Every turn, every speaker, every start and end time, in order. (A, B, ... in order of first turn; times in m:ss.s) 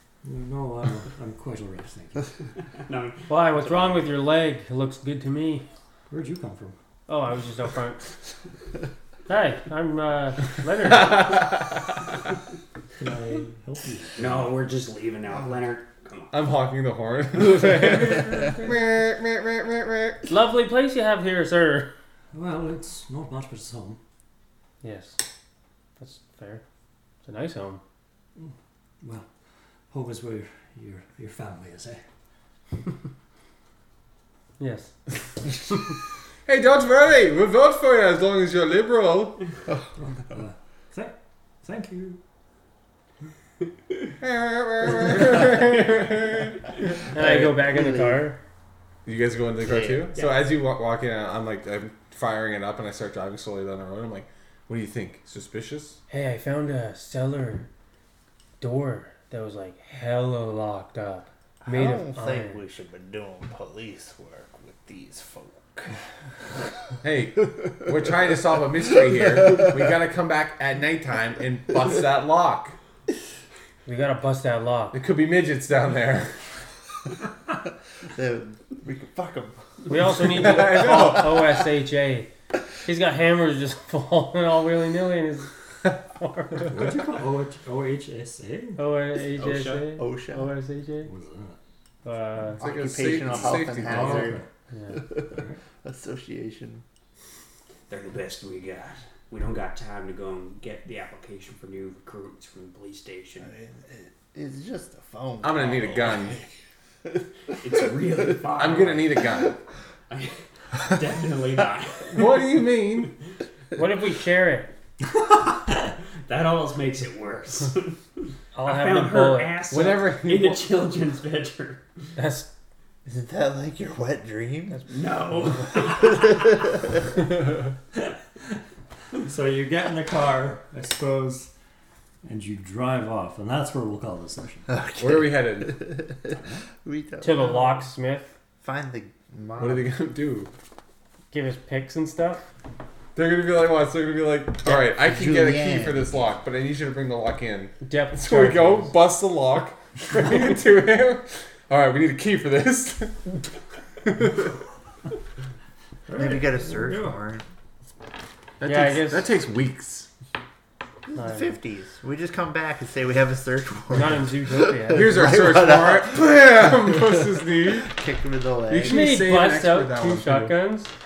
0:00.2-0:02.3 A
0:02.7-0:04.0 B
0:03.3-0:05.6 C
0:06.1-0:06.8 A
0:07.1-0:08.1 C
0:09.3-0:11.5 C
0:10.9-0:11.8 D
0:13.0-0:14.6 A
0:14.2-0:16.4 B
0:16.3-0:20.2 D
0:20.3-0:21.9 C
0:22.3-0:24.0 A
0:24.8-0:25.2 C
0:26.0-0:26.6 C
0:27.2-0:27.8 C
0:28.4-0:29.3 A
0:29.9-0:32.0 A
0:34.6-0:34.9 C
0:36.4-0:39.5 D
0:40.0-0:42.2 A
0:44.2-0:47.6 D
0:47.1-0:48.4 C
0:47.6-0:48.3 E
0:49.0-0:56.0 D
0:49.6-0:50.1 E
0:50.1-0:50.4 B
0:56.1-0:57.7 C
0:58.6-1:02.6 C
1:01.6-1:06.0 E
1:07.0-1:12.7 D
1:13.8-1:15.0 C
1:14.9-1:16.4 D
1:18.1-1:19.6 E
1:19.9-1:22.3 C
1:20.2-1:21.6 D
1:22.8-1:26.7 C
1:26.7-1:28.8 A
1:28.8-1:31.1 C
1:29.4-1:29.7 B
1:29.6-1:30.5 E
1:31.0-1:31.6 A
1:32.0-1:32.6 C
1:32.6-1:34.3 D
1:32.6-1:34.4 E
1:33.8-1:34.4 A
1:34.7-1:35.0 C
1:34.9-1:36.8 E
1:35.3-1:35.6 A
1:37.9-1:43.5 B
1:43.4-1:46.5 E
1:45.4-1:46.4 D
1:47.6-1:49.2 B
1:48.5-1:49.6 D
1:50.1-1:52.4 B
1:52.1-1:53.2 D
1:53.7-1:54.7 C
1:56.3-2:01.8 B
1:58.5-1:59.6 C
1:59.7-2:00.7 D
2:02.2-2:02.5 C
2:03.0-2:04.9 E
2:04.9-2:06.6 B
2:09.2-2:11.5 A
2:12.2-2:14.7 A
2:14.7-2:17.8 E
2:15.0-2:16.1 D
2:17.2-2:18.3 C
2:18.6-2:20.0 E
2:19.6-2:20.5 D
2:21.3-2:22.4 C
2:23.1-2:33.5 D
2:24.6-2:26.3 E
2:27.8-2:28.9 C
2:34.0-2:34.5 D
2:36.1-2:37.2 A
2:36.1-2:37.4 E
2:38.6-2:40.1 D
2:38.6-2:39.3 C
2:41.1-2:49.0 E
2:41.1-2:41.5 C
2:43.9-2:45.1 C
2:44.9-2:48.0 D
2:48.7-2:50.6 D
2:48.8-2:50.9 C